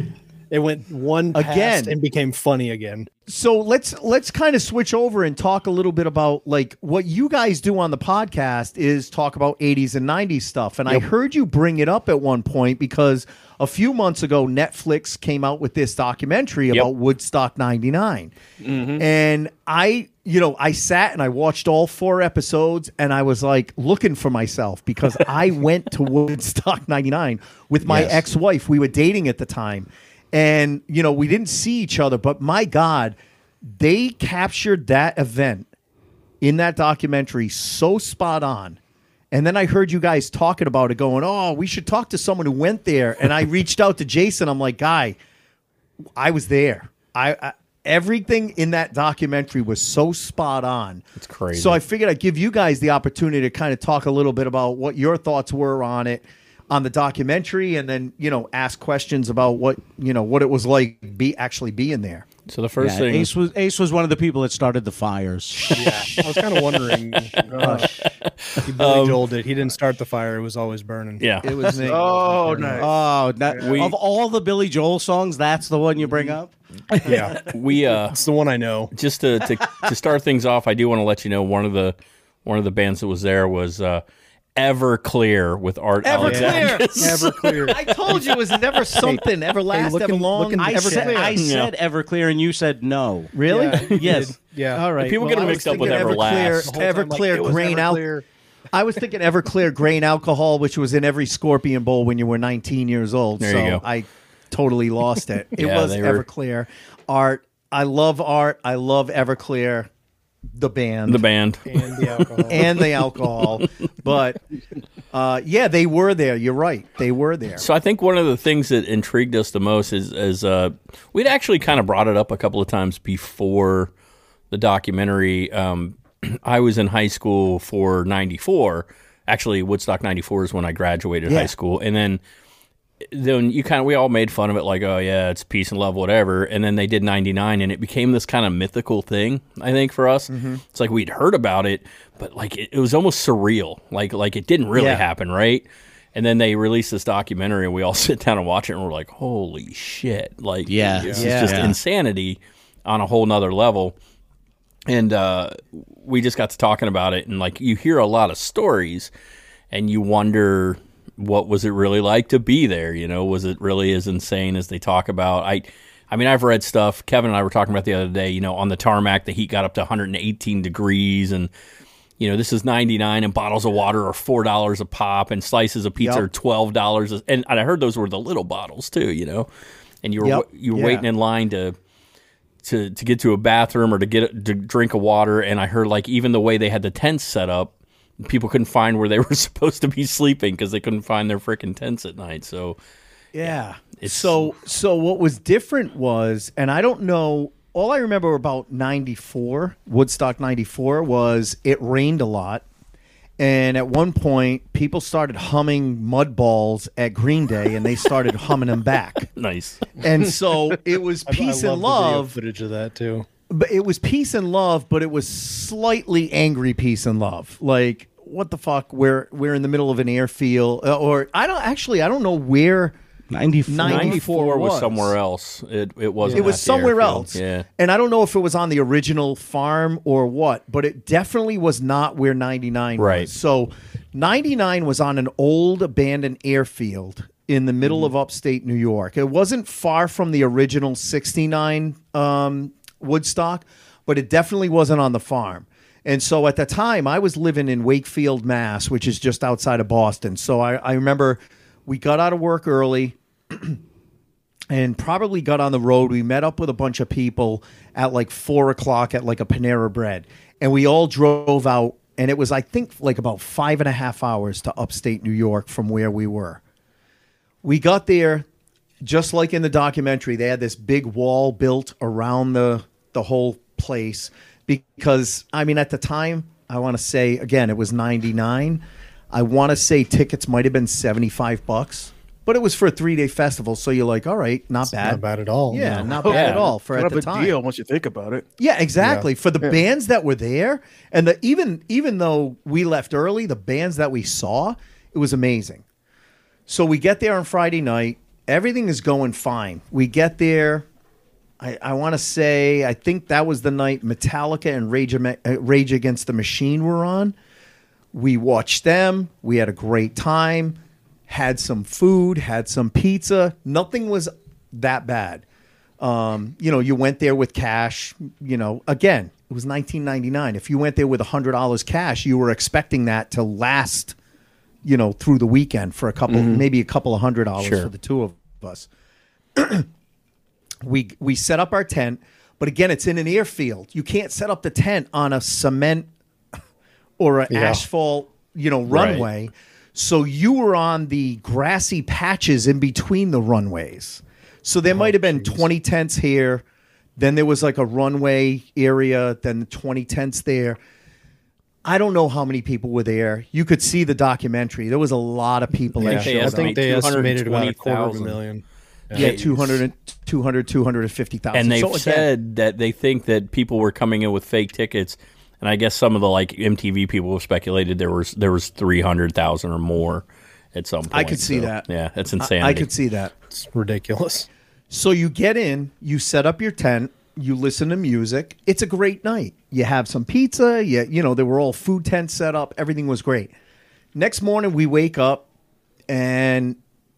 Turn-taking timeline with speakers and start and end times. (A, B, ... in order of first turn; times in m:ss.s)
0:00.5-0:03.1 A
0:01.3-0:01.9 B
0:03.3-0:18.3 B
0:18.6-0:19.0 C
0:19.0-0:35.7 B
0:27.8-0:28.2 D
0:36.4-0:38.8 B
0:39.3-0:45.2 B
0:46.2-1:02.2 B
0:51.2-0:51.8 D
1:02.5-1:03.3 D
1:02.8-1:05.8 E
1:05.7-1:07.9 A
1:07.5-1:07.8 C
1:07.6-1:08.0 B
1:08.4-1:09.2 D
1:08.6-1:11.2 A
1:11.2-1:11.9 D
1:11.4-1:12.7 B
1:11.8-1:12.9 C
1:12.4-1:12.8 A
1:12.7-1:16.5 E
1:13.5-1:13.9 C
1:13.6-1:13.9 D
1:16.9-1:17.4 A
1:17.4-1:18.2 D
1:18.1-1:18.9 A
1:18.9-1:24.0 D
1:24.6-1:27.9 D
1:26.0-1:31.3 B
1:26.2-1:28.4 A
1:28.9-1:31.4 A
1:30.6-1:33.3 E
1:31.4-1:31.7 D
1:33.3-1:38.1 B
1:33.4-1:38.2 A
1:34.0-1:34.3 E
1:35.0-1:36.7 D
1:38.7-1:49.9 B
1:43.4-1:43.8 D
1:45.6-1:46.2 D
1:50.5-1:51.2 B
1:51.1-1:52.9 D
1:51.6-1:52.6 A
1:52.5-1:54.4 B
1:55.1-1:57.7 B
1:57.6-2:03.9 D
2:04.5-2:12.2 D
2:11.2-2:11.5 B
2:13.1-2:34.0 D
2:20.3-2:20.6 B
2:24.7-2:25.0 B
2:30.7-2:31.8 E
2:31.2-2:31.7 B
2:34.9-2:39.1 D
2:39.7-2:51.5 D
2:52.2-2:59.5 D
2:56.0-2:56.2 B
3:00.0-3:01.8 D
3:00.2-3:01.1 B
3:02.6-3:12.8 D
3:13.3-3:22.6 B
3:13.4-3:14.5 D
3:23.4-3:29.3 B
3:29.4-3:29.9 D
3:30.0-3:32.4 B
3:31.2-3:33.2 A
3:33.5-3:43.0 B
3:43.3-3:44.2 E
3:43.7-3:45.1 B
3:43.8-3:47.6 D
3:46.2-3:46.5 A
3:46.3-4:13.8 B
3:53.0-3:53.3 D
4:14.7-4:26.6 B
4:27.6-4:28.4 B
4:29.0-4:47.5 B
4:44.9-4:45.9 A
4:45.8-4:46.7 D
4:46.2-4:48.4 C
4:48.6-4:55.8 B
4:56.7-5:00.8 B
5:01.6-5:07.3 B
5:08.1-5:15.4 B
5:16.0-5:24.2 B
5:24.8-5:28.9 B
5:27.6-5:27.9 D
5:29.6-5:29.9 B
5:30.8-5:36.1 B
5:37.2-5:46.6 B
5:37.5-5:37.8 A
5:38.9-5:39.2 D
5:44.9-5:45.6 A
5:47.2-5:50.8 B
5:51.8-5:56.8 B
5:56.0-5:59.3 A
5:56.0-5:58.4 D
5:59.1-5:59.7 D
5:59.1-6:02.3 B
6:01.5-6:12.9 D
6:11.1-6:11.9 B
6:12.4-6:13.3 B
6:13.5-6:14.5 A
6:14.9-6:23.5 B
6:24.1-6:25.4 B
6:26.1-6:26.8 B